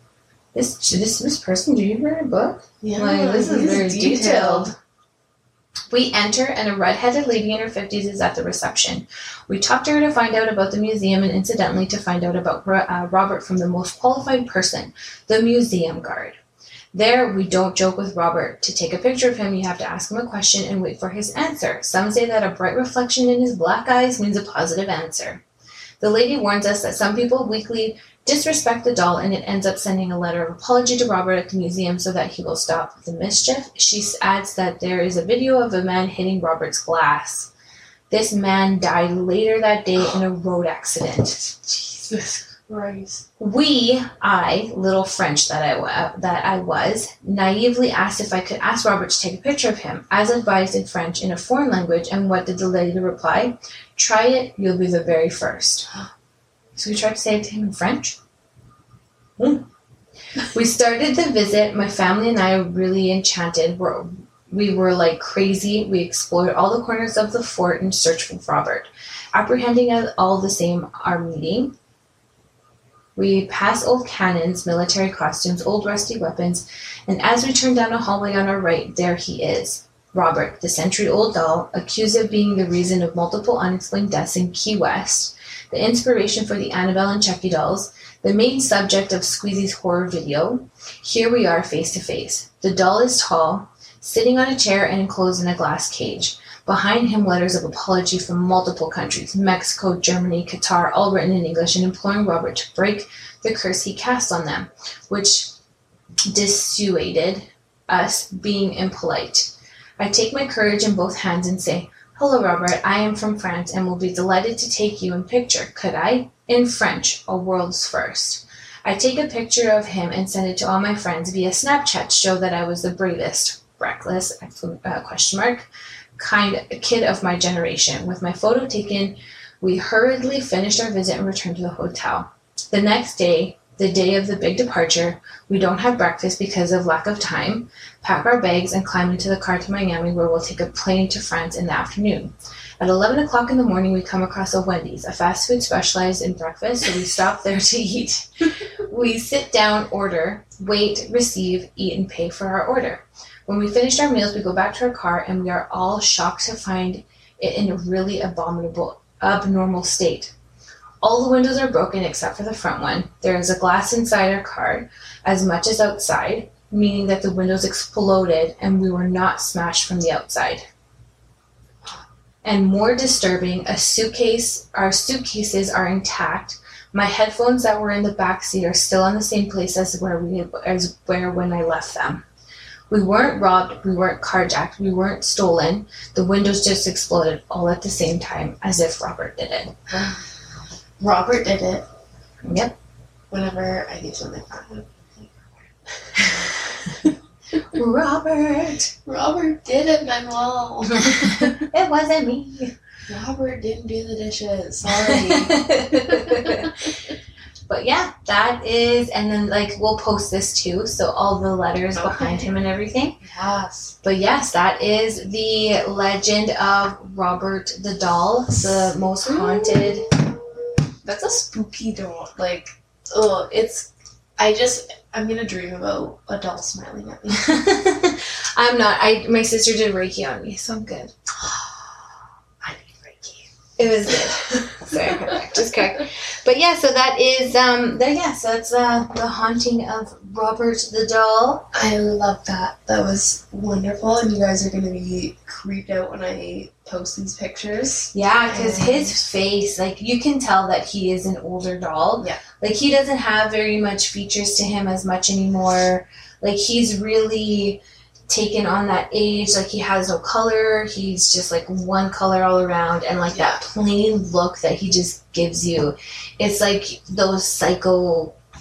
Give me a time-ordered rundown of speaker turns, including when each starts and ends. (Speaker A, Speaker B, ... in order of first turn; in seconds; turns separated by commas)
Speaker A: 0.5-4.7, Speaker B: 2.8-4.7, Speaker A: 5.9-16.4, Speaker A: 16.9-25.4, Speaker A: 26.0-37.5, Speaker A: 38.1-41.9, Speaker B: 42.0-43.2, Speaker A: 43.4-55.9, Speaker A: 56.7-58.2, Speaker A: 59.4-59.7, Speaker A: 60.4-71.7, Speaker A: 73.2-105.5, Speaker A: 106.3-148.3, Speaker A: 148.8-160.3, Speaker A: 161.0-170.7, Speaker A: 172.4-182.2, Speaker A: 182.9-189.7, Speaker B: 189.9-190.3, Speaker B: 191.0-191.9, Speaker A: 192.4-192.8, Speaker B: 193.3-196.5, Speaker A: 196.2-197.1, Speaker A: 197.7-198.9, Speaker B: 199.0-201.6, Speaker A: 201.0-202.7, Speaker B: 203.1-207.1, Speaker A: 204.9-206.9, Speaker A: 207.7-213.2, Speaker B: 211.9-212.5, Speaker B: 213.2-213.9, Speaker A: 214.0-220.2, Speaker B: 219.2-227.6, Speaker A: 227.3-231.1, Speaker B: 231.4-231.8, Speaker B: 232.6-233.5, Speaker A: 233.8-241.7, Speaker B: 234.0-235.6, Speaker B: 241.7-249.2, Speaker A: 248.1-268.4, Speaker B: 263.3-263.6